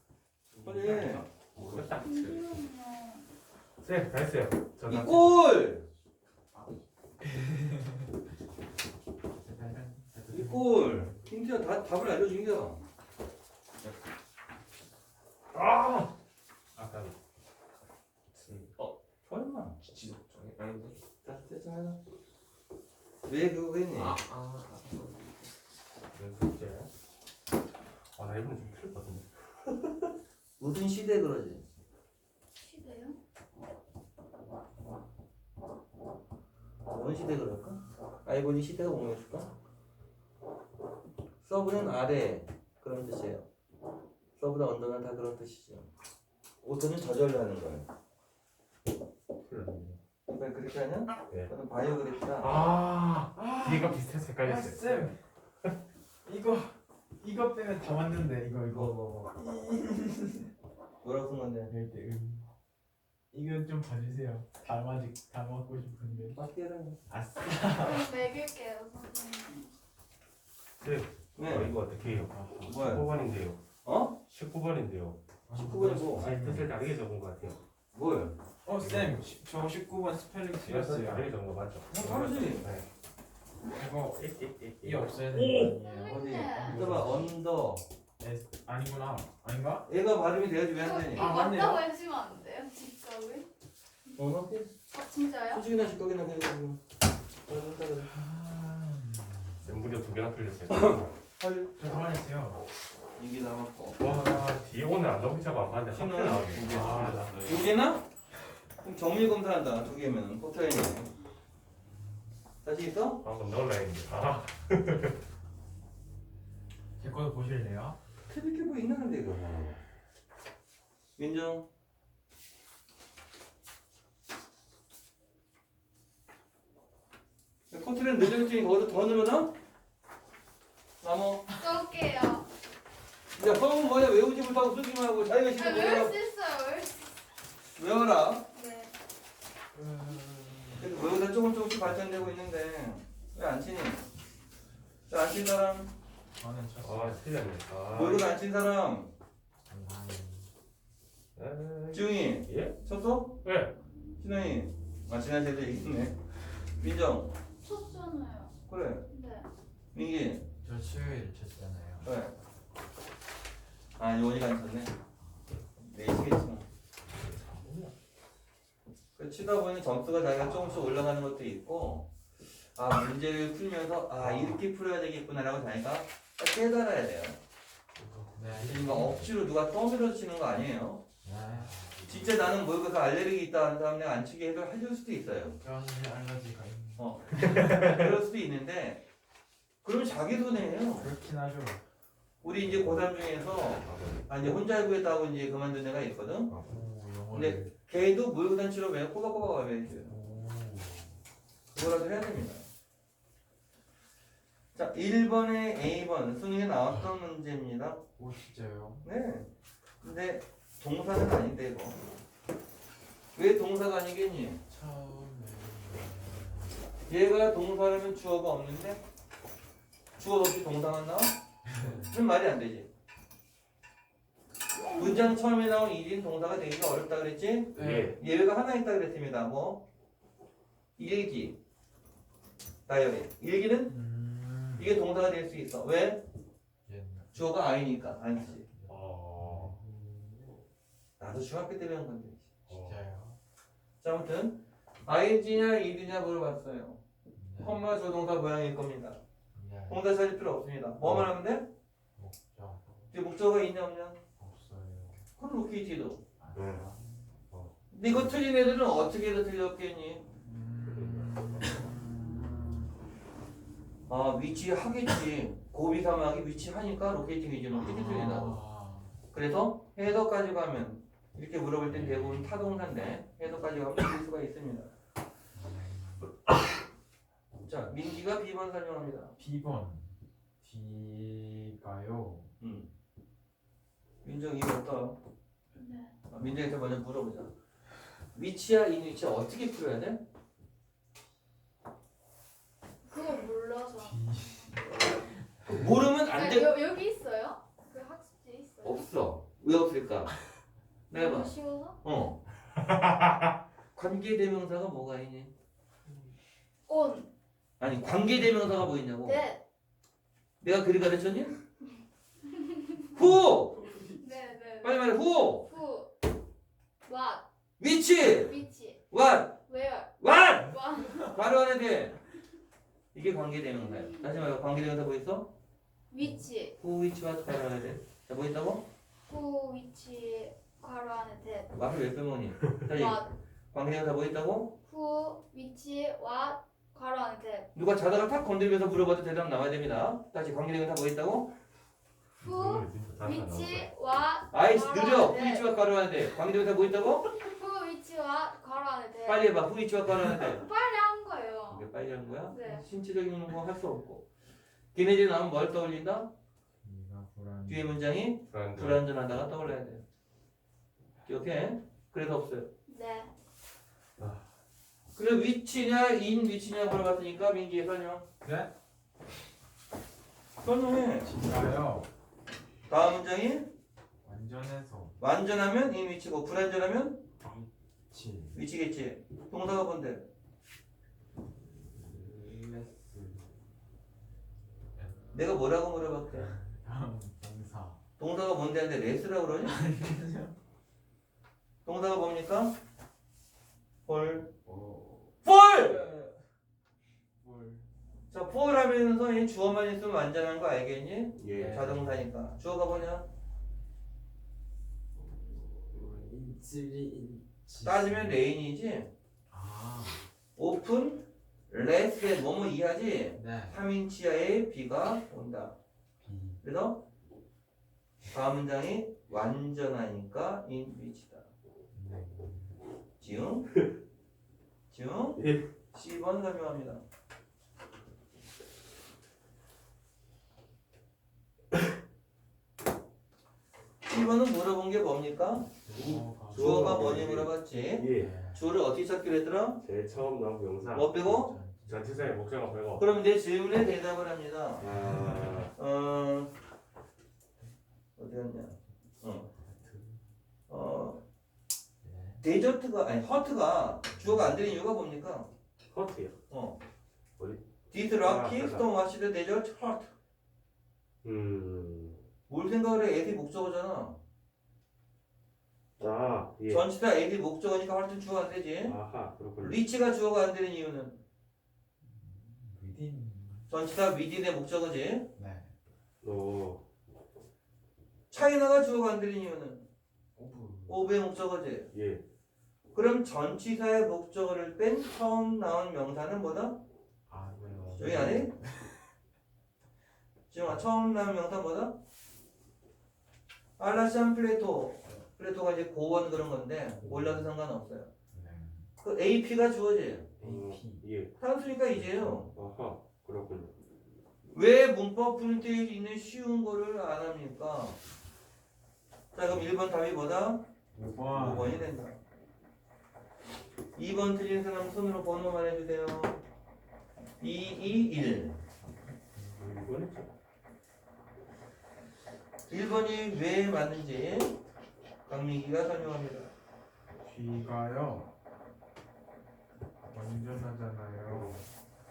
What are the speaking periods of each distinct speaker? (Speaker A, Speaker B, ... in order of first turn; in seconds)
Speaker A: 0.5-2.4, 3.8-5.4, 15.5-16.1, 16.8-17.1, 18.4-18.7, 26.1-26.9, 28.1-30.1, 49.4-50.0, 52.4-55.7, 70.8-73.6, 74.3-75.2, 76.1-77.6, 78.8-79.2, 80.7-82.9, 84.2-85.8, 86.8-87.1, 99.6-101.1, 104.0-107.3, 113.2-115.2, 146.8-148.3, 151.4-152.8, 153.4-153.7, 174.3-174.6, 178.0-179.2, 181.5-182.1, 187.5-188.1, 192.6-193.1, 193.8-194.3, 196.5-196.8, 227.8-228.2, 238.9-239.8, 242.7-243.0, 251.0-251.3, 256.5-256.9, 257.5-257.8, 260.9-261.8, 342.4-343.9, 358.5-359.1, 364.2-364.5, 401.4-401.9, 425.4-425.7, 435.9-438.3, 439.8-441.4, 441.9-443.1, 444.8-445.7, 455.9-456.4, 457.4-457.6, 458.2-458.9, 461.2-462.2, 466.0-466.9, 468.9-469.8, 476.2-476.8, 481.9-482.2, 487.9-488.5, 500.4-501.3, 502.2-503.7, 519.6-520.3, 531.3-531.6
Speaker B: 0.6-2.4, 13.8-14.1, 18.4-18.7, 19.8-21.2, 23.9-25.6, 106.5-107.7, 239.9-240.3, 382.1-383.0
Speaker C: 0.6-1.3, 4.9-5.8, 10.3-12.8, 18.8-19.8, 21.2-22.0, 23.3-24.2, 30.6-31.6, 36.9-39.5, 41.4-43.5, 44.4-45.9, 46.6-47.9, 50.3-52.6, 58.7-59.3, 61.0-61.7, 66.3-67.0, 71.4-71.8, 72.6-73.1, 73.8-74.2, 75.5-76.3, 77.9-78.3, 81.9-82.7, 86.1-87.8, 89.9-91.3, 94.2-94.7, 95.5-96.8, 97.5-98.2, 101.4-101.7, 103.2-104.0, 105.9-108.0, 108.8-111.1, 112.6-113.2, 118.3-119.8, 121.2-121.7, 127.7-129.5, 131.0-131.5, 133.3-136.2, 137.8-138.4, 140.8-144.1, 145.1-145.9, 147.9-149.1, 151.9-153.4, 154.2-156.2, 156.8-157.3, 158.7-159.1, 159.9-160.4, 162.0-162.3, 164.0-164.9, 165.8-166.7, 169.2-172.1, 172.8-177.4, 178.6-181.0, 182.1-185.6, 187.0-189.0, 189.8-191.1, 192.4-196.5, 197.3-200.1, 201.7-202.6, 204.8-208.0, 209.0-209.5, 210.0-212.0, 213.4-214.6, 217.1-219.0, 220.2-221.3, 221.9-222.9, 224.9-229.8, 231.0-231.6, 232.9-233.9, 234.8-236.2, 237.3-238.7, 241.2-242.4, 244.0-247.0, 247.6-249.2, 249.9-251.7, 253.1-254.2, 255.4-256.2, 257.9-260.2, 264.1-268.6, 269.3-274.9, 277.6-279.4, 282.6-282.9, 284.2-285.2, 286.3-287.5, 288.4-290.2, 295.7-296.7, 298.8-300.4, 301.1-302.4, 304.0-305.5, 307.8-309.4, 310.6-311.6, 313.1-313.8, 314.8-315.7, 317.8-318.6, 319.1-319.6, 320.2-322.2, 323.1-325.5, 326.8-328.9, 331.8-334.7, 337.8-341.5, 344.5-347.3, 349.3-350.7, 351.7-354.2, 354.9-356.3, 357.7-360.0, 361.2-362.7, 365.2-368.3, 370.6-371.3, 372.9-373.7, 375.2-377.2, 378.5-380.3, 385.3-386.5, 388.2-389.8, 391.9-392.8, 394.1-394.5, 395.4-396.0, 398.3-403.3, 407.8-409.1, 410.6-415.8, 416.6-417.0, 418.3-421.5, 423.2-423.7, 424.9-425.4, 425.9-427.0, 434.1-435.7, 436.5-439.8, 440.9-441.6, 443.0-444.9, 445.8-446.5, 448.2-449.5, 450.7-451.2, 452.4-455.5, 456.5-456.8, 457.9-460.1, 462.5-464.2, 466.7-469.0, 469.6-471.2, 473.7-475.3, 478.3-479.9, 480.9-481.9, 482.9-486.8, 488.0-488.5, 490.5-491.9, 493.8-498.1, 499.0-500.3, 501.4-502.5, 504.5-508.0, 509.3-510.6, 511.3-512.2, 514.0-516.4, 517.4-518.6, 522.7-524.6, 525.3-526.5
Speaker D: 2.0-3.3, 32.6-33.2, 67.7-69.7, 85.8-86.8, 90.8-93.5, 94.9-95.7, 131.5-132.5, 135.6-137.2, 138.5-138.9, 157.6-158.6, 159.1-159.5, 285.8-286.1, 293.0-294.8, 296.3-299.1, 301.1-302.0, 306.9-307.3, 309.2-309.6, 312.4-313.1, 314.0-315.1, 315.6-316.1, 317.0-317.4, 318.2-319.0, 319.7-321.3, 323.9-324.3, 326.1-326.8, 329.3-331.7, 332.9-333.3, 334.9-337.7, 342.4-345.7, 347.3-349.6, 350.2-351.9, 352.5-352.8, 362.9-363.3
Speaker E: 7.2-8.1, 9.4-11.3, 53.3-55.2, 56.2-60.5, 61.7-62.5, 63.3-66.4, 67.1-68.1, 71.9-73.1, 75.5-76.7, 78.7-81.3, 83.7-87.3, 88.2-89.9, 91.1-91.8, 98.1-99.8, 101.8-102.6, 104.0-104.5, 106.7-107.3, 117.0-118.0, 139.7-140.9, 146.4-147.2, 149.7-150.5, 160.6-162.1, 165.2-165.5, 167.3-167.9, 170.5-171.0, 178.3-179.3, 181.2-182.1, 185.6-188.0, 191.0-191.8, 196.7-197.7, 200.0-201.2, 208.2-209.1, 214.7-216.8, 221.7-222.1, 227.8-228.2, 233.9-235.0, 236.9-237.4, 238.7-239.8, 242.7-243.4, 247.4-247.8, 249.5-250.0, 252.2-253.1, 254.4-255.2, 256.4-257.3, 260.4-262.9, 267.7-269.1, 271.9-272.8, 275.5-276.3, 279.4-282.5, 294.0-295.9, 313.8-314.2, 356.8-358.0, 368.4-368.7, 371.2-372.1, 374.2-375.1, 377.4-378.6, 382.0-383.4, 386.4-388.0, 389.6-390.6, 394.7-395.2, 395.8-396.4, 397.4-397.8, 401.4-402.3, 405.1-408.4, 409.5-410.3, 413.3-413.8, 416.2-416.6, 421.9-422.8, 435.8-437.1, 438.1-438.7, 441.2-442.3, 444.9-445.7, 449.3-450.2, 452.0-452.4, 454.1-454.6, 472.0-473.7, 475.4-475.7, 480.4-481.0, 487.3-489.1, 497.0-497.5, 498.3-498.9, 500.4-501.0, 510.9-511.9, 519.4-519.8, 527.2-528.3, 530.1-531.6